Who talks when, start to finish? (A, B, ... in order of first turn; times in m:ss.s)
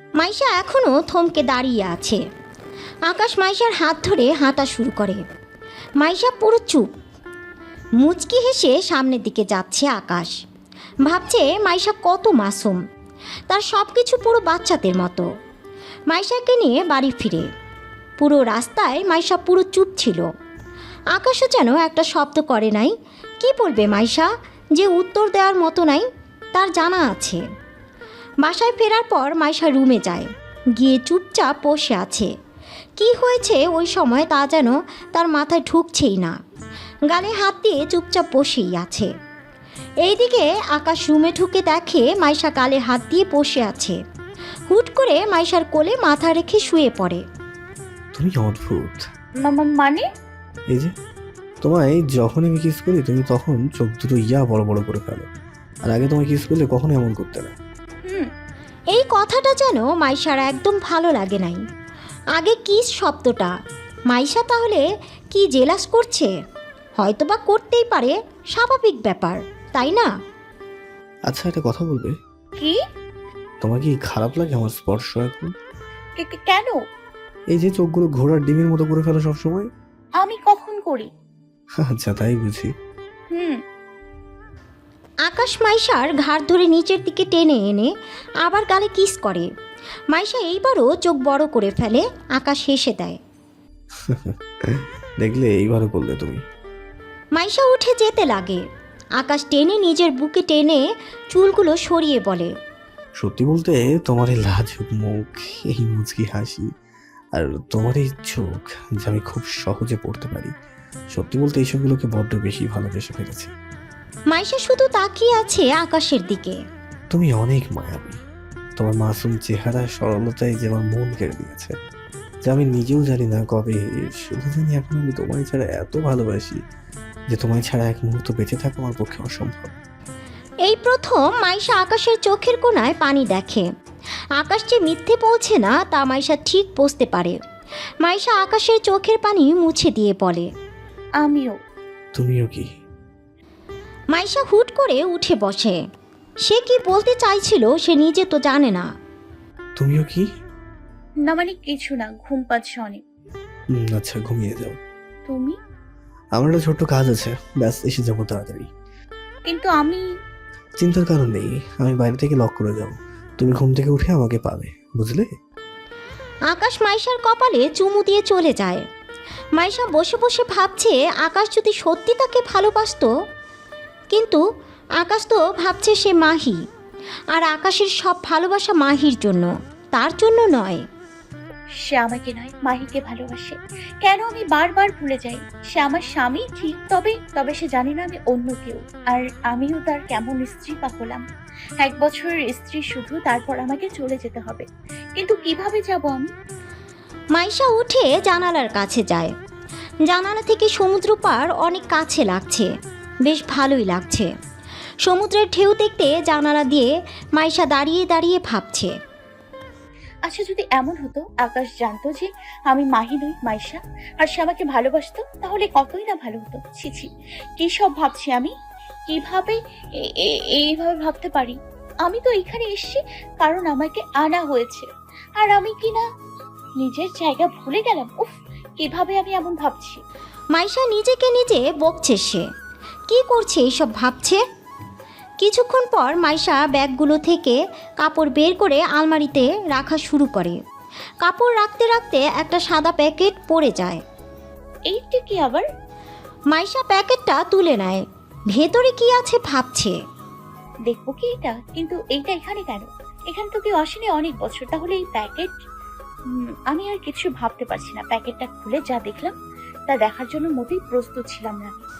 0:00.2-0:02.2 A
0:03.1-0:05.2 A
0:06.0-0:06.9 A
0:08.0-0:10.3 A
0:11.0-0:12.8 A
0:13.5-0:15.3 A
0:16.1-0:17.5 A
0:18.2-0:20.2 A
0:21.1-0:27.4 A
0:28.4-0:32.3 A
0:33.0-0:36.3 A
0:37.1-0:39.1 A
0:40.0-0:44.0 A
0:44.7-0:47.2 A
0:48.1-0:49.1 B
0:49.4-0:50.0 C
0:51.6-0:55.3 B
0:55.8-0:57.5 B
0:58.9-1:01.6 A
1:02.4-1:03.5 A
1:04.1-1:06.3 A
1:07.0-1:10.1 A
1:11.3-1:12.2 B
1:13.6-1:15.5 B
1:16.2-1:16.8 C
1:17.5-1:19.7 B
1:20.2-1:21.1 C
1:21.8-1:22.7 B
1:23.3-1:23.6 C
1:25.3-1:27.9 A
1:28.4-1:29.5 A
1:30.1-1:33.2 A
1:34.1-1:36.4 B
1:37.4-1:38.6 A
1:39.2-1:42.5 A
1:43.2-1:46.7 B
1:47.3-1:50.5 B
1:51.1-1:53.5 B
1:54.3-1:56.6 A
1:57.1-1:58.2 B
1:58.8-2:01.7 B
2:02.4-2:06.6 B
2:07.3-2:09.7 B
2:10.6-2:13.7 A
2:14.4-2:17.4 A
2:18.0-2:20.5 A
2:21.2-2:21.5 C
2:22.1-2:22.7 B
2:24.1-2:25.8 A
2:26.4-2:28.9 A
2:29.8-2:30.2 B
2:31.3-2:33.0 C
2:33.7-2:34.8 B
2:35.3-2:35.6 C
2:36.4-2:38.7 B
2:39.4-2:40.0 C
2:40.8-2:45.3 B
2:46.5-2:48.8 A
2:49.6-2:53.1 A
2:54.1-2:54.4 A
2:55.0-2:56.6 A
2:57.3-3:00.8 A
3:01.8-3:11.2 C
3:11.8-3:16.3 C
3:17.3-3:19.3 A
3:20.0-3:22.7 A
3:23.2-3:24.3 A
3:25.0-3:28.9 A
3:30.3-3:38.5 C
3:39.1-3:46.0 C
3:46.8-3:50.0 C
3:50.5-3:52.4 A
3:53.1-3:54.4 A
3:55.4-4:00.6 A
4:01.2-4:04.0 A
4:04.9-4:05.6 C
4:06.5-4:10.0 A
4:10.9-4:15.5 C
4:16.3-4:19.3 C
4:19.9-4:21.8 C